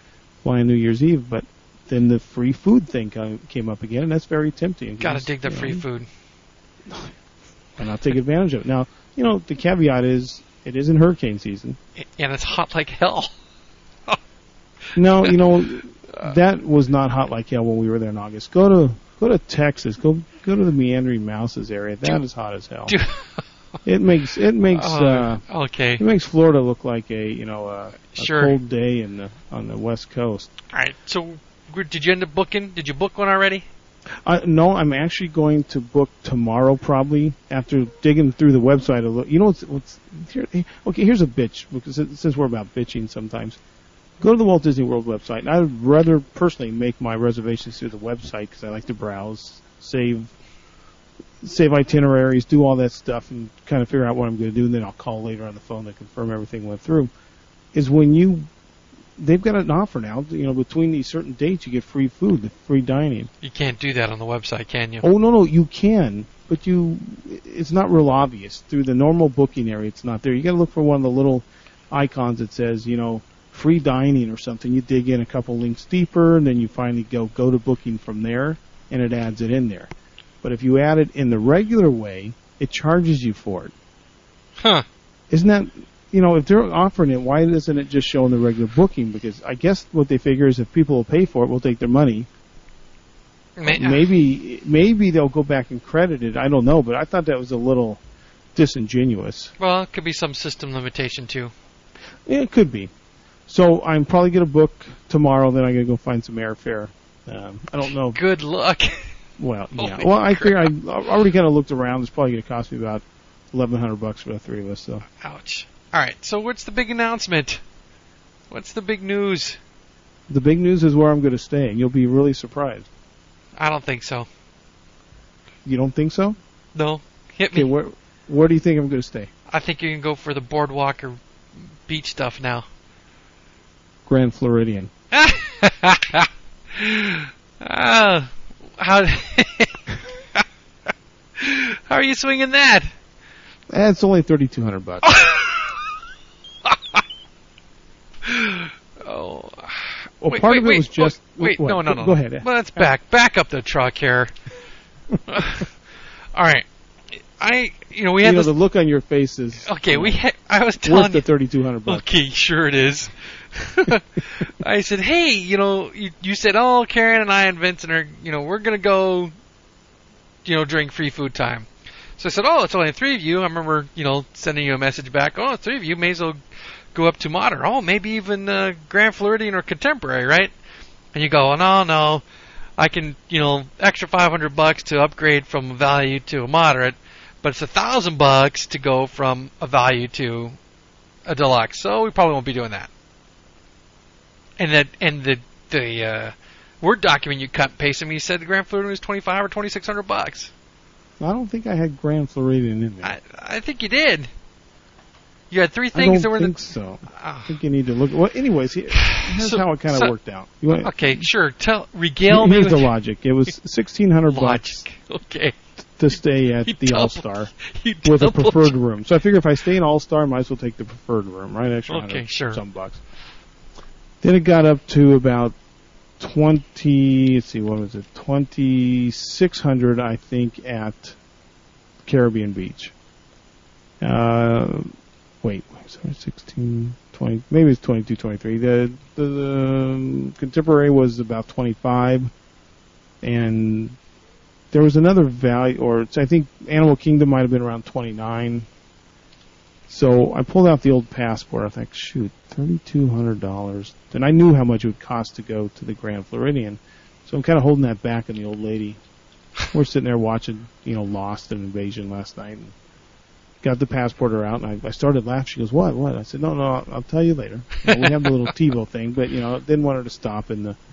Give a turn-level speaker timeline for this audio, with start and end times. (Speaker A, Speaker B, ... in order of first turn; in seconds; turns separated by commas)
Speaker A: 0.4-5.8, Speaker B: 5.0-6.1, Speaker A: 6.9-7.1, Speaker A: 7.8-11.8, Speaker B: 12.0-13.3, Speaker A: 14.9-22.9, Speaker B: 15.2-15.5, Speaker B: 22.9-23.4, Speaker A: 23.8-25.4, Speaker B: 24.7-26.0, Speaker A: 26.0-30.5, Speaker B: 28.1-28.6, Speaker B: 30.7-33.6, Speaker A: 34.2-43.6, Speaker A: 44.2-50.3, Speaker A: 51.4-57.1, Speaker A: 57.7-58.5, Speaker A: 59.2-63.3, Speaker B: 63.4-65.0, Speaker A: 65.0-79.9, Speaker A: 80.4-83.7, Speaker B: 84.6-84.8, Speaker A: 85.3-92.3, Speaker B: 93.6-94.1, Speaker A: 93.7-98.0, Speaker A: 98.5-99.5, Speaker B: 99.6-101.5, Speaker A: 102.2-102.9, Speaker A: 103.5-108.2, Speaker B: 108.1-109.1, Speaker A: 109.4-115.0, Speaker B: 109.8-110.7, Speaker B: 115.2-117.6, Speaker B: 118.5-119.6, Speaker A: 120.3-122.9, Speaker B: 123.5-124.3, Speaker A: 125.6-126.4, Speaker B: 126.7-127.7, Speaker A: 127.5-129.3, Speaker B: 129.5-131.2, Speaker B: 131.8-132.7, Speaker A: 134.1-134.9, Speaker B: 135.1-140.4, Speaker B: 141.4-142.9, Speaker A: 143.7-145.1, Speaker B: 145.0-145.8, Speaker B: 146.6-147.0, Speaker B: 148.2-154.3, Speaker A: 150.2-152.4, Speaker B: 155.3-155.7, Speaker B: 156.3-158.5, Speaker A: 158.2-160.2, Speaker B: 159.6-161.2, Speaker A: 160.8-162.0, Speaker B: 161.8-169.3, Speaker B: 170.4-171.7, Speaker B: 172.2-176.4, Speaker B: 176.9-180.5, Speaker B: 181.1-182.2, Speaker B: 182.8-190.6, Speaker B: 191.2-192.9, Speaker B: 194.6-200.5, Speaker A: 201.2-203.1, Speaker B: 203.0-204.3, Speaker B: 205.5-206.6, Speaker A: 205.9-211.3, Speaker B: 207.1-207.5, Speaker B: 208.9-210.1, Speaker B: 210.7-212.9, Speaker A: 212.3-214.8, Speaker B: 214.3-215.6, Speaker A: 216.0-217.5, Speaker B: 216.6-218.7, Speaker A: 218.0-223.0, Speaker B: 221.9-222.6, Speaker A: 224.2-225.5, Speaker A: 226.2-231.2, Speaker A: 232.0-232.9, Speaker A: 234.0-242.3, Speaker A: 243.2-244.0, Speaker A: 244.7-248.7, Speaker A: 249.9-259.0, Speaker A: 259.7-262.7, Speaker A: 263.6-270.8, Speaker B: 267.9-268.3